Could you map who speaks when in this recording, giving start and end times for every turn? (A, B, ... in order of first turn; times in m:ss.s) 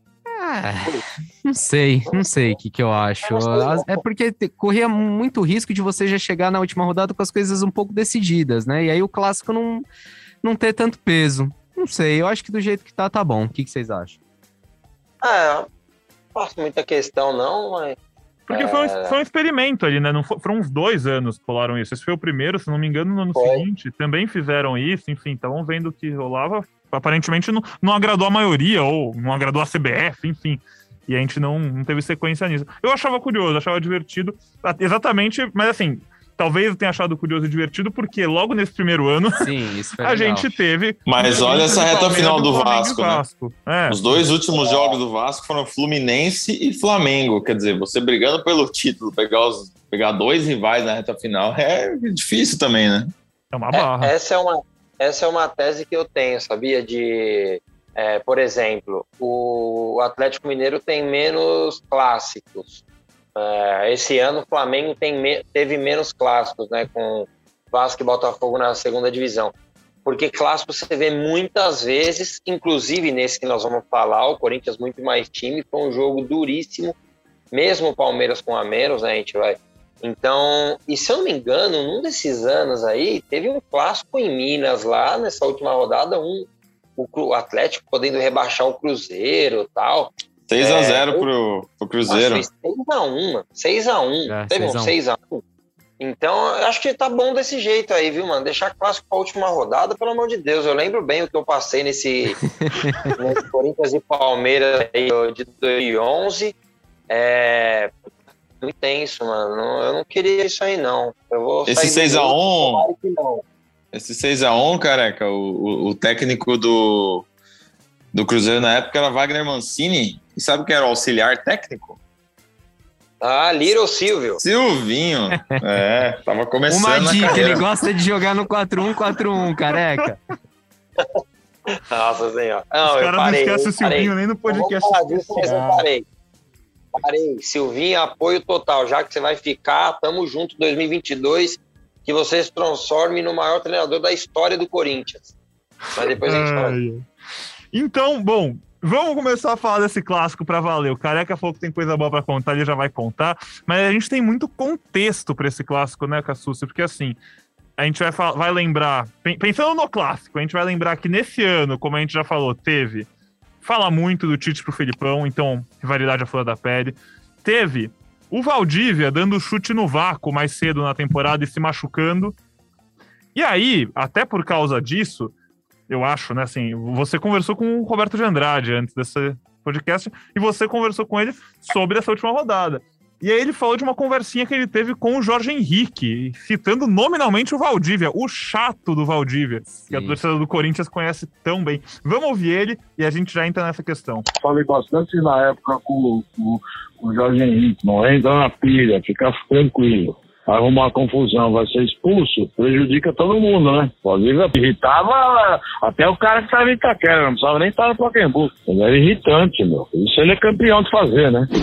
0:00.3-0:09.8 A
0:02.1-0:02.6 B
0:03.2-0:03.9 B
0:10.4-0:14.2 A
0:15.2-0:15.7 B
0:16.4-0:18.0 B
0:18.5-0:39.5 C
0:18.5-0:19.2 B
0:23.4-0:23.6 B
0:39.4-0:40.5 A
0:40.0-0:44.2 C
0:41.1-0:43.2 D
0:43.9-0:53.1 D
0:44.5-0:45.0 B
0:53.5-0:54.1 C
0:53.7-1:02.8 B
1:03.4-1:09.5 B
1:10.0-1:17.0 B
1:17.5-1:31.3 B
1:30.5-1:32.5 D
1:32.1-1:35.4 B
1:34.3-1:35.0 A
1:36.0-1:42.4 B
1:42.6-1:43.1 A
1:43.1-1:46.6 B
1:47.1-1:47.9 B
1:48.6-1:53.4 B
1:51.7-1:52.9 D
1:53.9-1:57.3 D
1:58.1-2:02.0 D
2:03.2-2:04.4 B
2:04.4-2:07.7 D
2:06.7-2:10.2 A
2:11.7-2:16.0 B
2:12.8-2:15.9 C
2:17.0-2:25.3 B
2:25.9-2:27.0 C
2:25.9-2:26.8 B
2:27.7-2:37.2 C
2:37.8-2:43.1 C
2:43.6-2:52.4 C
2:53.4-2:55.3 C
2:55.9-3:14.3 C
3:09.8-3:10.2 A
3:14.4-3:31.5 E